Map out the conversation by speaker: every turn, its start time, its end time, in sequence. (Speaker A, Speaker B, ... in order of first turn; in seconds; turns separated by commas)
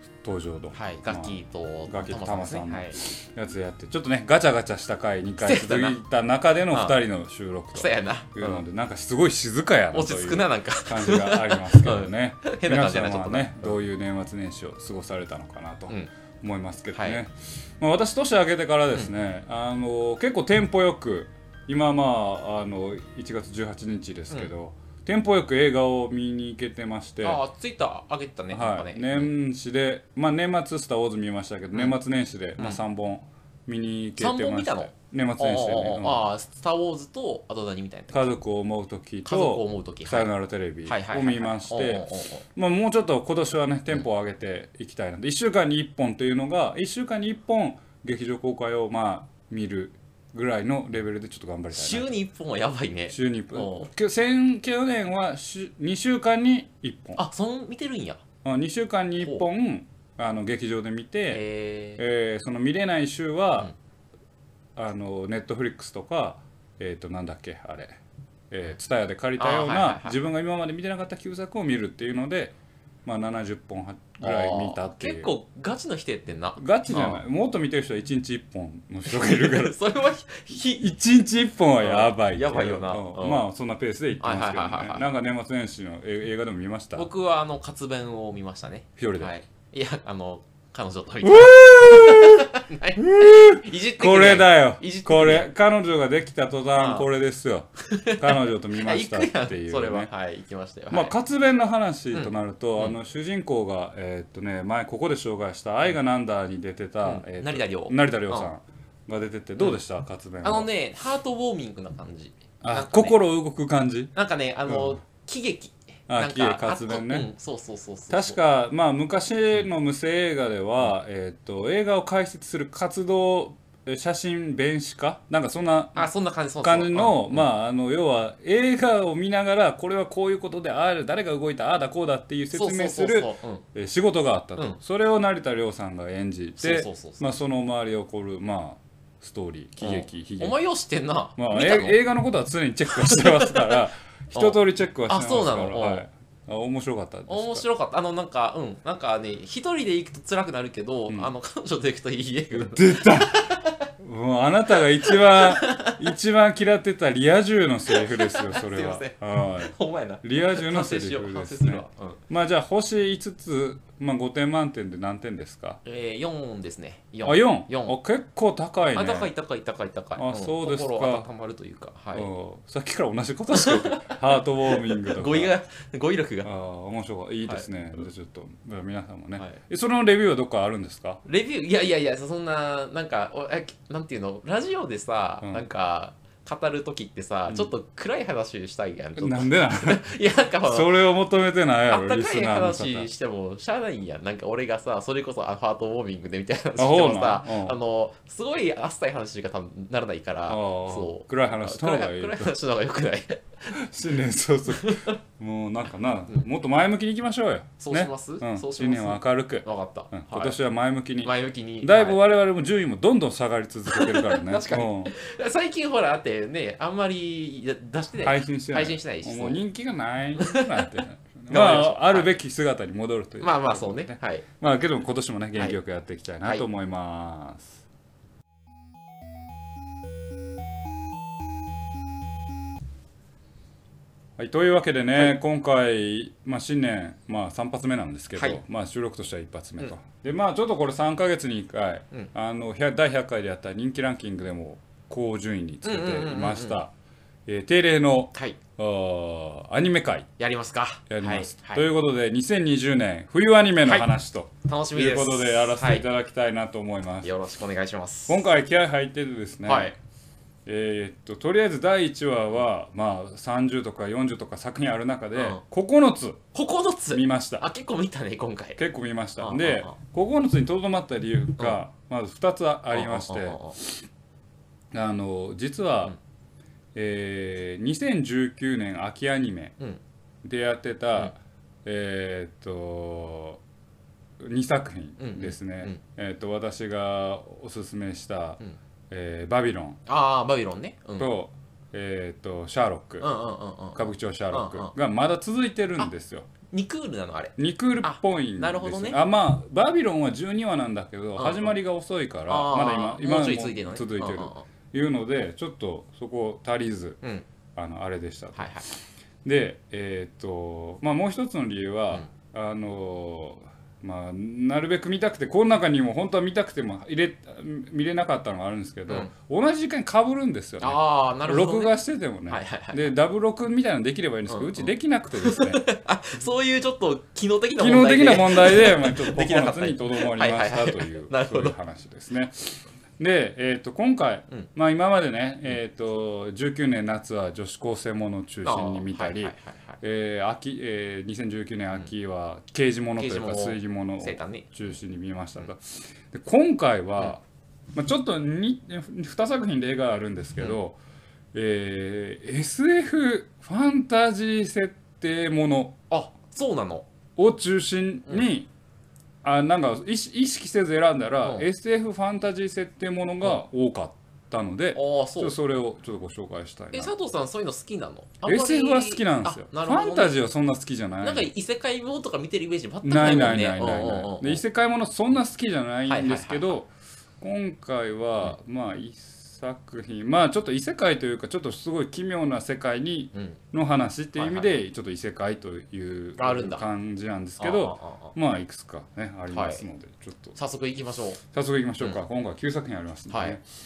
Speaker A: 0.2-27.4, Speaker B: 0.7-3.0, Speaker B: 5.4-6.0, Speaker B: 7.7-8.6, Speaker B: 9.9-13.8, Speaker B: 16.9-17.2, Speaker B: 27.2-29.3, Speaker A: 28.5-36.2, Speaker B: 34.2-38.4, Speaker A: 38.1-52.1, Speaker B: 39.2-40.3, Speaker B: 40.9-42.5, Speaker B: 51.7-53.9, Speaker A: 53.1-57.2, Speaker B: 57.1-58.2, Speaker A: 58.4-61.4, Speaker B: 59.2-59.5, Speaker B: 61.3-62.0, Speaker A: 62.0-63.7, Speaker A: 64.8-68.0, Speaker A: 68.5-75.3, Speaker B: 69.4-70.2, Speaker B: 74.2-77.2, Speaker A: 76.6-79.8, Speaker B: 79.1-80.9, Speaker A: 80.8-87.1, Speaker B: 81.8-83.4, Speaker B: 84.2-85.1, Speaker B: 86.9-95.5, Speaker A: 89.0-89.3, Speaker A: 91.2-100.1, Speaker B: 96.8-97.1, Speaker B: 97.8-101.1, Speaker A: 100.9-110.7, Speaker B: 102.1-102.9, Speaker B: 107.0-108.5, Speaker B: 110.4-113.2, Speaker A: 112.6-114.1, Speaker B: 114.1-118.4, Speaker A: 114.7-115.0, Speaker A: 116.1-117.3, Speaker A: 118.1-126.1, Speaker B: 125.9-127.5, Speaker A: 126.6-140.6, Speaker B: 132.5-133.6, Speaker B: 136.6-137.3, Speaker B: 139.8-142.0, Speaker A: 141.4-147.6, Speaker B: 142.9-143.8, Speaker B: 144.3-146.1, Speaker B: 147.3-153.9, Speaker A: 152.5-153.5, Speaker A: 154.0-165.8, Speaker B: 154.9-156.1, Speaker B: 157.9-162.2, Speaker B: 165.8-168.0, Speaker A: 167.2-169.3, Speaker B: 168.9-172.3, Speaker A: 170.2-171.3, Speaker A: 172.1-175.5, Speaker B: 173.5-176.5, Speaker A: 176.4-181.2, Speaker B: 181.2-190.9, Speaker A: 189.2-190.1, Speaker A: 190.6-193.1, Speaker B: 191.9-203.7, Speaker A: 196.8-197.8, Speaker A: 200.5-202.5, Speaker A: 203.7-215.1, Speaker B: 204.7-205.2, Speaker B: 207.8-210.6, Speaker B: 211.2-212.2, Speaker B: 213.9-219.6, Speaker A: 218.2-227.8, Speaker B: 220.4-221.0, Speaker B: 221.5-222.3, Speaker B: 223.4-224.4, Speaker A: 234.4-246.9, Speaker B: 238.3-238.6, Speaker B: 245.8-246.8, Speaker A: 247.4-250.3, Speaker B: 250.4-251.9, Speaker A: 251.1-257.3, Speaker B: 253.8-254.1, Speaker B: 254.6-256.1, Speaker B: 257.2-258.4, Speaker A: 258.3-259.9, Speaker B: 259.6-259.9, Speaker A: 260.6-266.4, Speaker B: 265.4-265.6, Speaker B: 266.5-268.8, Speaker A: 267.1-267.6, Speaker A: 268.8-274.0, Speaker B: 269.4-269.9, Speaker B: 272.9-273.8, Speaker A: 274.9-276.1, Speaker A: 276.9-279.7, Speaker A: 280.4-283.6, Speaker A: 284.4-290.0, Speaker B: 285.2-286.0, Speaker B: 290.1-291.3, Speaker A: 291.2-293.3, Speaker B: 293.2-294.9, Speaker A: 293.9-296.5, Speaker B: 296.7-299.2, Speaker A: 297.6-307.2, Speaker B: 301.4-301.8, Speaker B: 302.5-304.6, Speaker A: 307.8-308.7, Speaker B: 308.6-308.9, Speaker A: 309.4-325.8, Speaker B: 320.8-321.9, Speaker B: 322.5-323.1, Speaker B: 324.5-331.8, Speaker A: 327.8-347.4, Speaker B: 338.6-340.0, Speaker B: 343.2-344.7, Speaker A: 347.9-351.0, Speaker A: 351.5-356.0, Speaker B: 356.1-357.1, Speaker A: 357.4-358.7, Speaker A: 359.4-367.1, Speaker B: 364.9-365.6, Speaker B: 366.9-370.4, Speaker A: 368.4-371.5, Speaker B: 371.2-374.6, Speaker A: 373.0-376.9, Speaker B: 376.1-376.8, Speaker A: 377.4-390.6, Speaker B: 383.3-383.6, Speaker B: 384.4-384.8, Speaker B: 386.4-386.9, Speaker B: 387.6-388.4, Speaker B: 389.5-389.8, Speaker B: 390.6-391.4, Speaker A: 391.4-393.6, Speaker B: 393.3-393.6